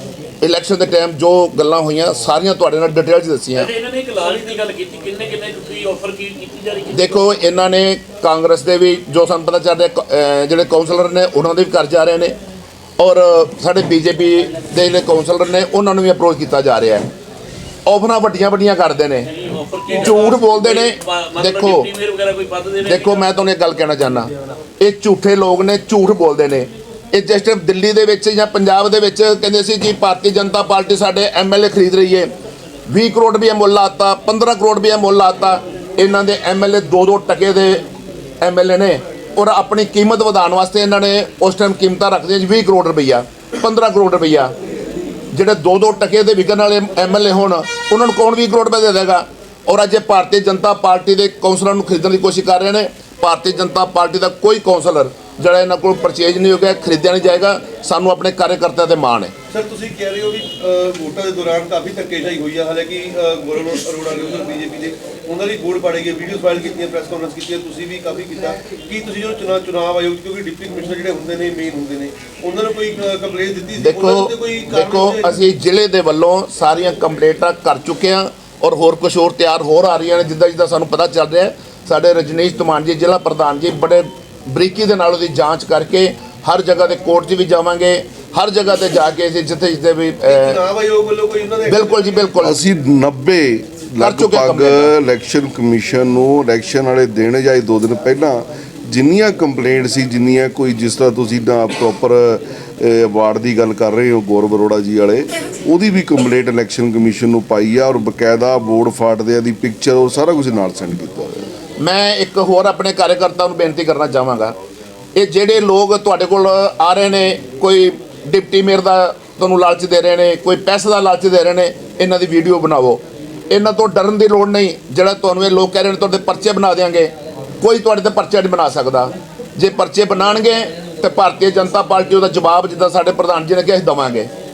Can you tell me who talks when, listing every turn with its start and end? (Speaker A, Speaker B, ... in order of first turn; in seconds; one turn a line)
Speaker A: 0.4-3.7
Speaker B: 3.5-7.2
Speaker A: 6.9-12.3
Speaker A: 13.0-17.1
Speaker A: 17.9-19.3
Speaker B: 19.2-23.5
Speaker A: 19.9-21.9
Speaker A: 22.8-32.3
Speaker A: 32.9-37.8
Speaker A: 38.4-44.5
Speaker A: 45.3-59.3
Speaker C: 59.5-75.3
Speaker A: 73.8-90.6
Speaker C: 90.2-92.3
Speaker A: 91.7-92.6
Speaker D: 92.4-111.4
Speaker A: 94.0-94.9
Speaker A: 111.8-114.5
Speaker A: 115.2-134.3